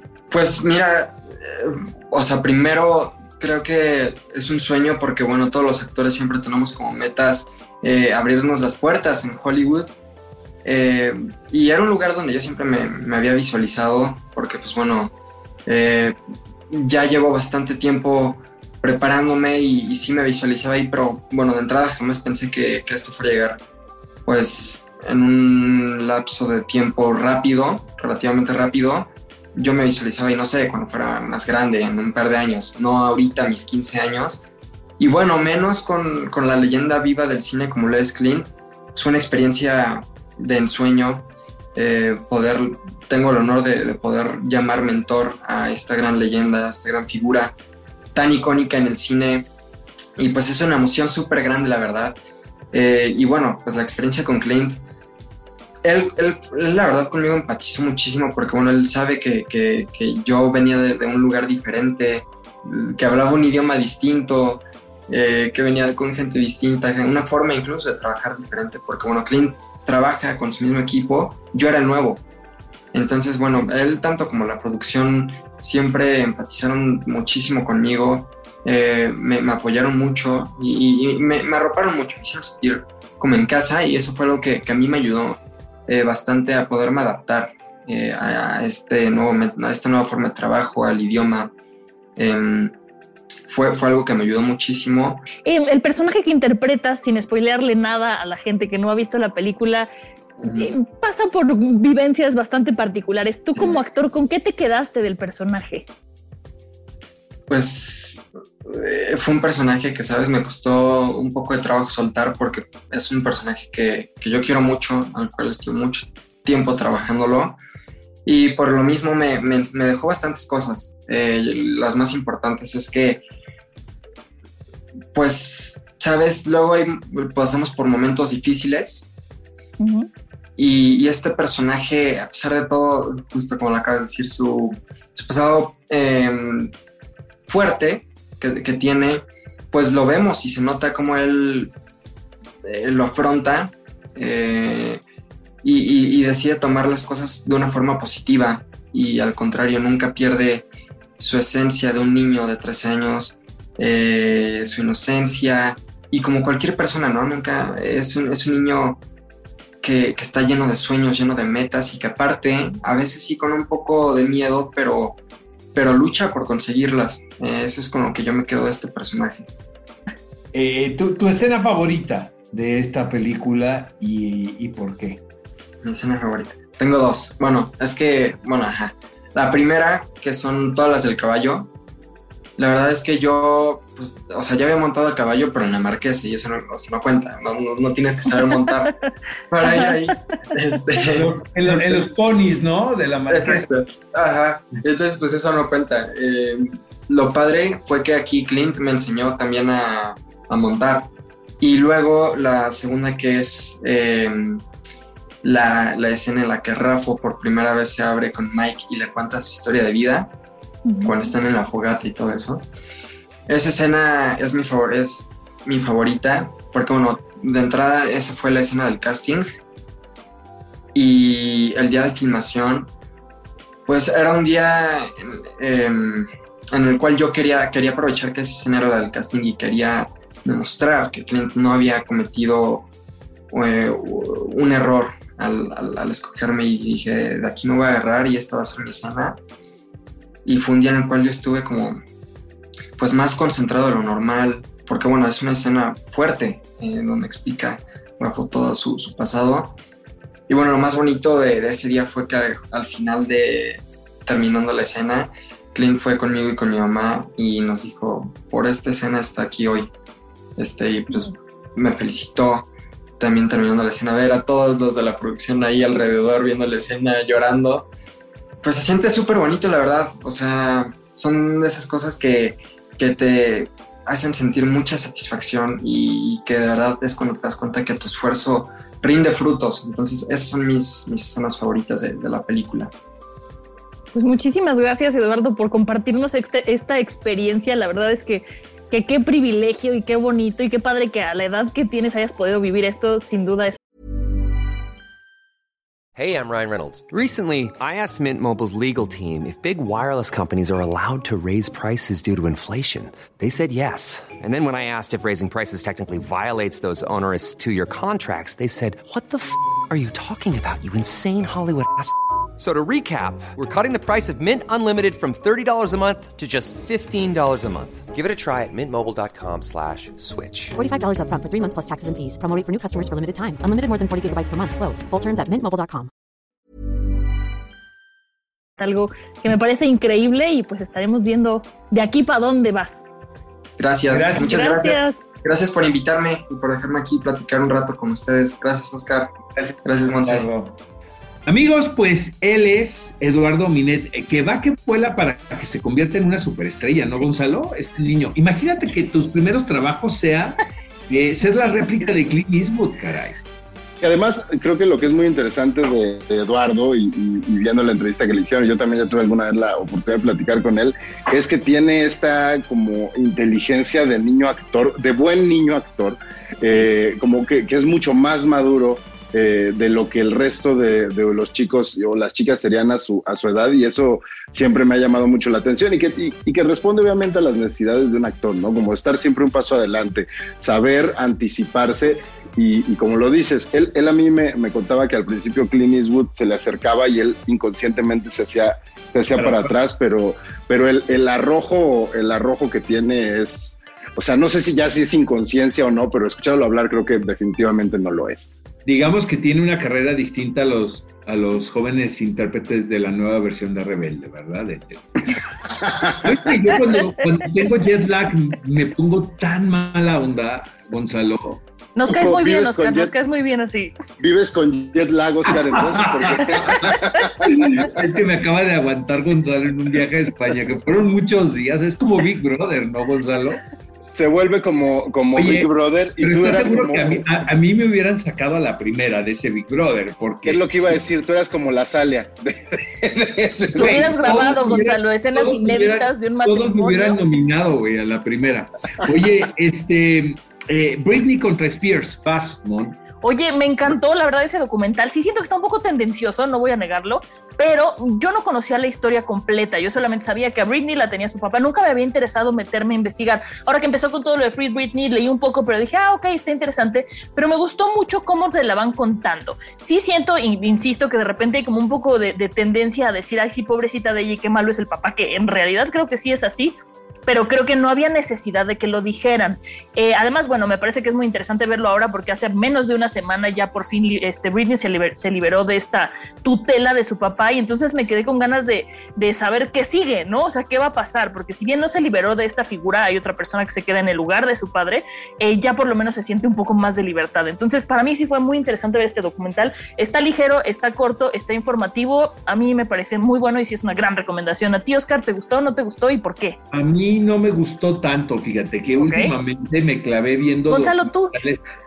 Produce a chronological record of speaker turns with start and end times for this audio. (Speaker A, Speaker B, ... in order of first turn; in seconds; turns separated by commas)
Speaker A: 0.3-9.9, Speaker A: 10.7-15.1, Speaker A: 15.7-16.2, Speaker A: 16.7-23.6, Speaker A: 24.3-34.4, Speaker A: 35.0-47.6, Speaker A: 48.1-49.5, Speaker A: 50.2-52.2, Speaker A: 52.7-54.8, Speaker A: 55.8-72.2, Speaker A: 72.9-91.5, Speaker A: 92.2-92.8, Speaker A: 93.5-95.3, Speaker B: 95.5-99.9, Speaker A: 100.4-100.7, Speaker B: 100.5-105.9, Speaker A: 107.5-117.6, Speaker A: 118.3-123.2, Speaker A: 125.1-129.1, Speaker B: 129.8-130.1, Speaker A: 130.6-136.7, Speaker A: 137.5-141.7, Speaker A: 142.6-145.0, Speaker A: 145.6-150.7, Speaker A: 151.2-159.0, Speaker A: 159.8-165.2, Speaker A: 165.7-169.5, Speaker C: 170.5-175.2, Speaker A: 175.8-181.7, Speaker A: 182.6-189.0, Speaker A: 189.5-192.1, Speaker B: 189.6-189.9, Speaker C: 191.1-193.7, Speaker A: 193.3-204.7, Speaker A: 205.4-210.3, Speaker B: 210.9-211.2, Speaker A: 211.0-212.7, Speaker A: 213.5-219.5, Speaker A: 220.9-222.9, Speaker A: 223.9-232.9, Speaker A: 233.5-239.4, Speaker A: 240.4-242.0, Speaker A: 243.0-249.8, Speaker A: 250.5-259.9, Speaker A: 260.6-262.7, Speaker A: 263.2-267.9, Speaker A: 268.6-282.9, Speaker B: 284.1-293.8, Speaker D: 296.2-320.7, Speaker E: 320.7-326.1, Speaker B: 328.8-333.1, Speaker A: 333.8-340.5, Speaker C: 334.1-334.7, Speaker B: 334.4-335.2, Speaker C: 339.6-340.7, Speaker C: 341.5-350.6, Speaker C: 351.1-353.4, Speaker F: 354.0-398.5, Speaker C: 389.4-389.8, Speaker C: 398.9-405.1, Speaker F: 405.8-406.4, Speaker C: 406.2-411.6, Speaker B: 412.0-413.9, Speaker F: 412.1-413.1, Speaker F: 414.2-418.0, Speaker C: 415.5-423.6, Speaker F: 424.1-427.3, Speaker C: 425.4-431.0, Speaker F: 430.5-434.8, Speaker C: 433.6-443.0, Speaker B: 433.8-437.2, Speaker B: 443.2-466.8, Speaker B: 467.3-496.6, Speaker C: 496.7-501.6, Speaker B: 499.0-499.3, Speaker B: 500.7-501.4